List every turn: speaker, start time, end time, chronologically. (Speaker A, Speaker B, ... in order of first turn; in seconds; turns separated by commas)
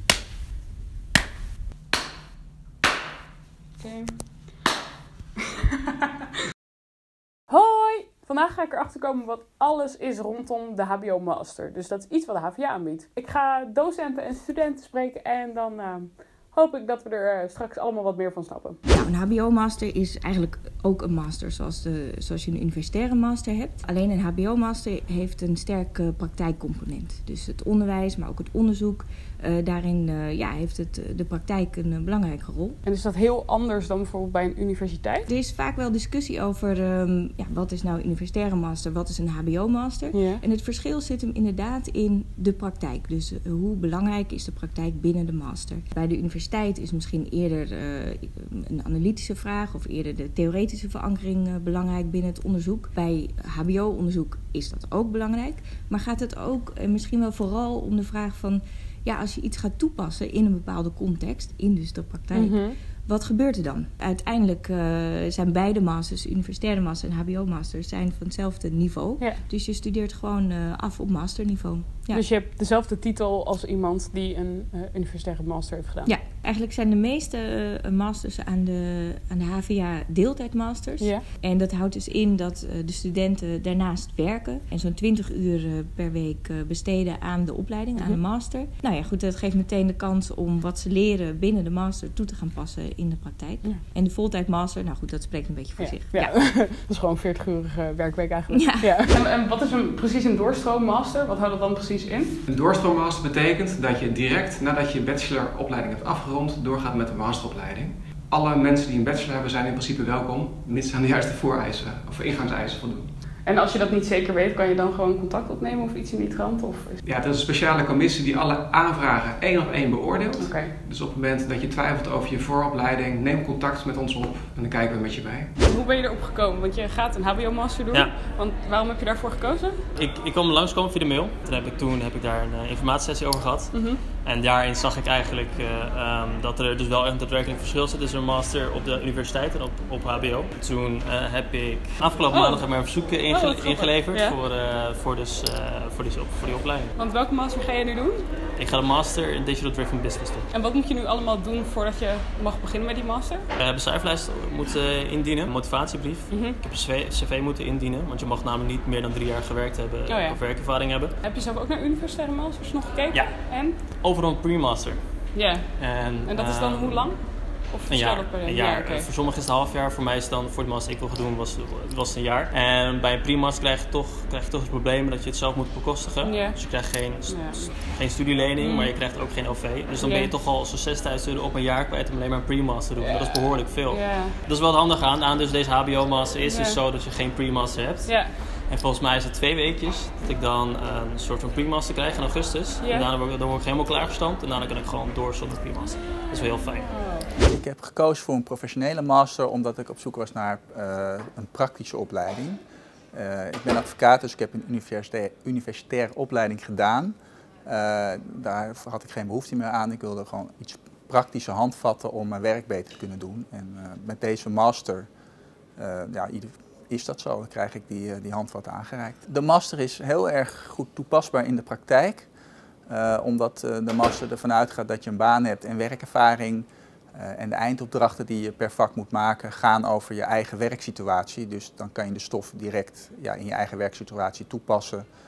Speaker A: 3.8-4.3, Speaker A: 7.5-18.8, Speaker B: 18.9-32.8, Speaker A: 32.8-35.3, Speaker B: 35.3-72.2, Speaker A: 40.1-40.4, Speaker A: 62.3-62.8, Speaker A: 72.1-76.1, Speaker B: 76.0-96.5, Speaker A: 81.0-81.2, Speaker A: 95.8-102.3, Speaker B: 98.5-99.0, Speaker C: 102.5-113.1, Speaker A: 113.4-117.0, Speaker C: 117.0-125.5, Speaker A: 120.3-120.7, Speaker A: 125.6-129.8, Speaker D: 129.9-146.9, Speaker A: 133.7-134.0, Speaker A: 142.3-144.4, Speaker A: 146.9-148.3, Speaker D: 148.6-150.5, Speaker A: 150.5-153.5, Speaker D: 153.6-161.1, Speaker A: 156.3-156.6, Speaker A: 160.1-163.8, Speaker D: 163.1-167.3, Speaker A: 165.3-169.1, Speaker D: 167.9-197.0, Speaker A: 176.2-176.6, Speaker A: 177.2-177.7, Speaker A: 178.6-178.9, Speaker A: 180.0-180.3, Speaker A: 183.0-184.4, Speaker A: 186.4-186.8, Speaker A: 188.0-188.3, Speaker A: 192.8-193.1, Speaker A: 196.9-197.3, Speaker E: 197.4-202.6, Speaker E: 203.1-215.1, Speaker E: 215.8-222.3, Speaker E: 222.9-235.1